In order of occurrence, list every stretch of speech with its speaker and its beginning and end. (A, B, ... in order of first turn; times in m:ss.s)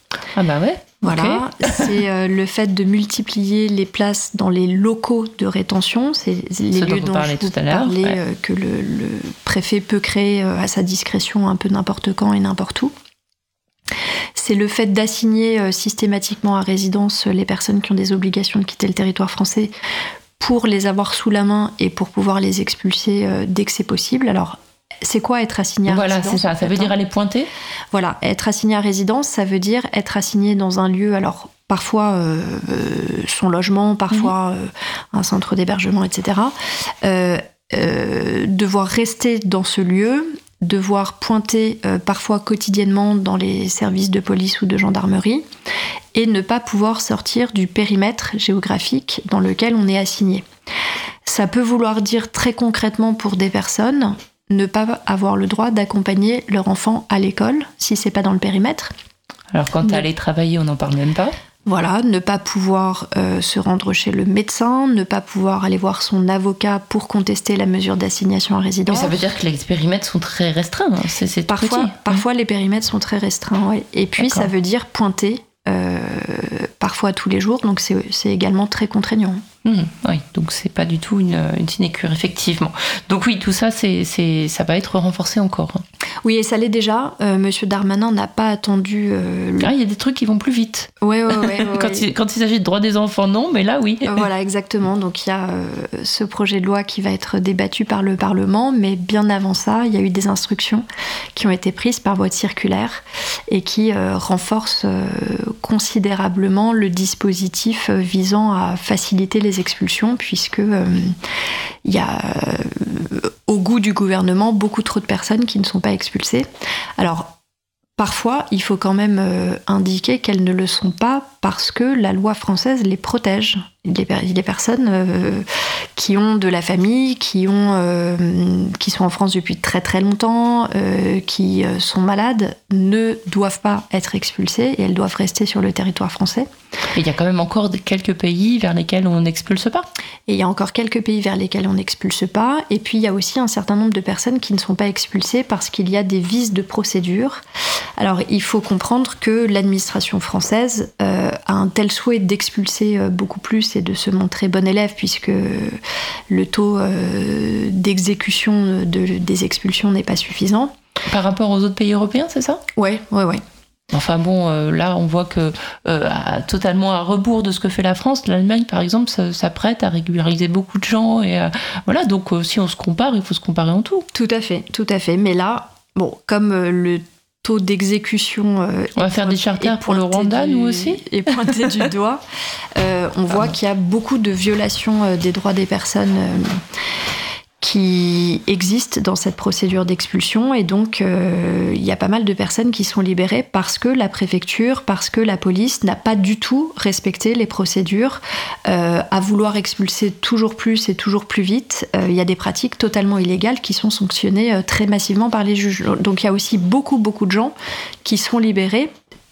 0:00.3-0:02.0 A
0:01.0-0:12.9 B
0:06.7-0:08.2 A
0:14.4-0:19.7 B
0:20.4-0:26.9 B
0:25.9-0:27.5 A
0:27.9-0:45.4 B
0:46.1-0:50.4 B
0:51.2-0:58.9 B
0:59.5-1:01.4 A
1:01.6-1:09.2 B
1:08.9-1:12.2 A
1:11.5-1:19.4 B
1:14.2-1:14.5 A
1:19.6-1:25.8 A
1:26.2-1:29.7 B
1:29.6-1:34.2 A
1:31.0-1:32.1 B
1:34.0-1:51.2 B
1:51.8-1:56.5 B
1:57.0-1:57.3 B
1:58.0-2:05.4 B
2:06.0-2:16.5 B
2:16.9-2:19.9 A
2:20.3-2:27.4 B
2:28.0-2:40.7 B
2:41.1-2:42.6 A
2:42.8-2:43.4 B
2:43.9-2:54.0 A
2:54.1-3:02.2 B
2:59.0-3:01.7 A
3:02.7-3:06.6 B
3:07.6-3:28.9 B